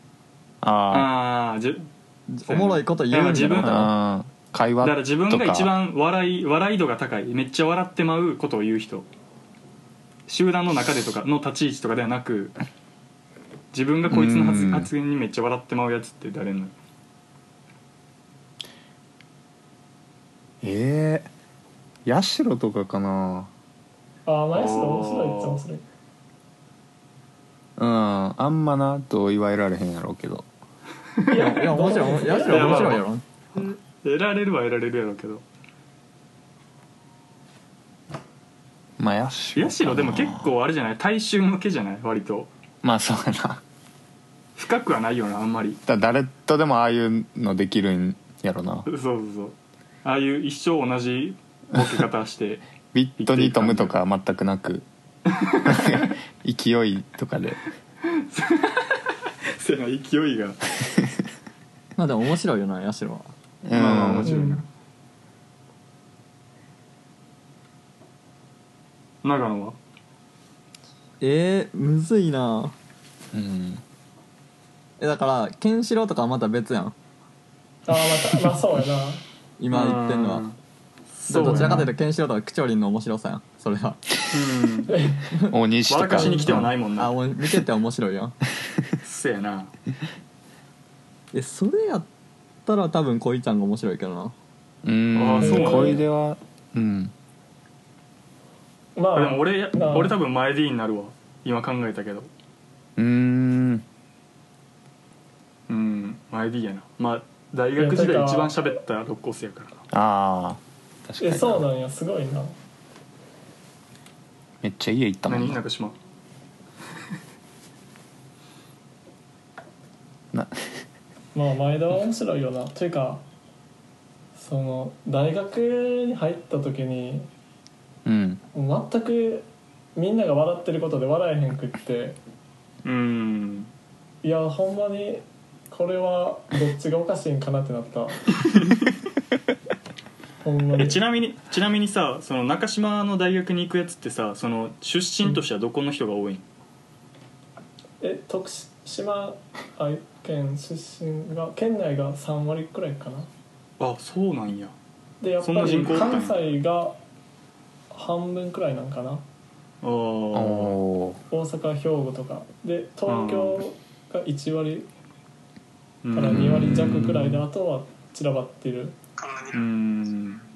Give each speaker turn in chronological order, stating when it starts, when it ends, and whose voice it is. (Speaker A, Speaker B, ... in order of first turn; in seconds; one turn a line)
Speaker A: 0.6-1.1
Speaker B: 0.9-1.9
Speaker C: 2.3-3.9
Speaker B: 2.4-3.9
Speaker A: 3.6-5.7
Speaker B: 4.8-9.1
Speaker B: 10.3-12.6
Speaker B: 13.7-16.7
Speaker A: 14.1-14.9
Speaker A: 20.6-21.3
Speaker A: 22.1-23.5
Speaker D: 24.2-25.8
Speaker B: 24.5-25.6
Speaker A: 27.8-30.4
Speaker D: 31.3-33.0
Speaker C: 31.3-33.2
Speaker B: 32.3-33.0
Speaker B: 33.5-35.4
Speaker A: 39.0-40.5
Speaker B: 39.5-42.5
Speaker A: 42.8-43.6
Speaker B: 44.5-45.8
Speaker A: 45.9-48.9
Speaker B: 48.9-52.6
Speaker A: 52.9-54.9
Speaker B: 53.2-53.9
Speaker B: 55.5-56.1
Speaker A: 55.7-57.6
Speaker B: 58.3-60.6
Speaker C: 62.0-63.3
Speaker A: 63.6-64.3
Speaker B: 63.7-64.7
Speaker D: 64.2-64.6
Speaker B: 69.2-69.8
Speaker C: 71.2-72.7
Speaker A: 73.3-73.8
Speaker C: 75.0-76.9
Speaker D: 77.9-79.2
Speaker C: 79.6-80.4
Speaker B: 79.7-80.6
Speaker B: 81.1-81.9
Speaker C: 81.3-84.0
Speaker A: 81.5-81.8
Speaker B: 84.3-84.9
Speaker D: 84.9-85.3
Speaker A: 85.3-86.7
Speaker B: 85.9-87.2
Speaker D: 86.2-86.5
Speaker C: 87.0-88.4
Speaker B: 89.0-89.7
Speaker C: 91.3-92.1
Speaker C: 92.7-94.3
Speaker A: 94.8-97.1
Speaker B: 95.1-96.0
Speaker D: 95.4-96.0
Speaker D: 99.0-100.2
Speaker B: 99.1-102.3
Speaker A: 103.0-103.8
Speaker B: 105.7-109.8
Speaker D: 107.8-108.7
Speaker A: 109.9-111.7
Speaker D: 111.2-112.5
Speaker A: 114.6-115.6
Speaker B: 115.3-116.0
Speaker A: 120.3-120.8
Speaker D: 121.3-123.2
Speaker D: 124.3-127.3
Speaker A: 128.0-128.4
Speaker D: 128.5-132.2
Speaker B: 132.8-133.7
Speaker D: 134.2-138.2
Speaker D: 140.4-141.0
Speaker B: 140.8-146.4
Speaker D: 148.0-153.3
Speaker B: 153.8-154.7
Speaker D: 155.2-157.0
Speaker B: 155.4-156.4
Speaker D: 157.9-159.2
Speaker B: 159.8-160.7
Speaker A: 160.3-161.2
Speaker D: 161.3-164.9
Speaker B: 163.1-163.6
Speaker B: 166.0-167.0
Speaker D: 166.1-169.0
Speaker A: 166.2-167.4
Speaker B: 169.5-170.4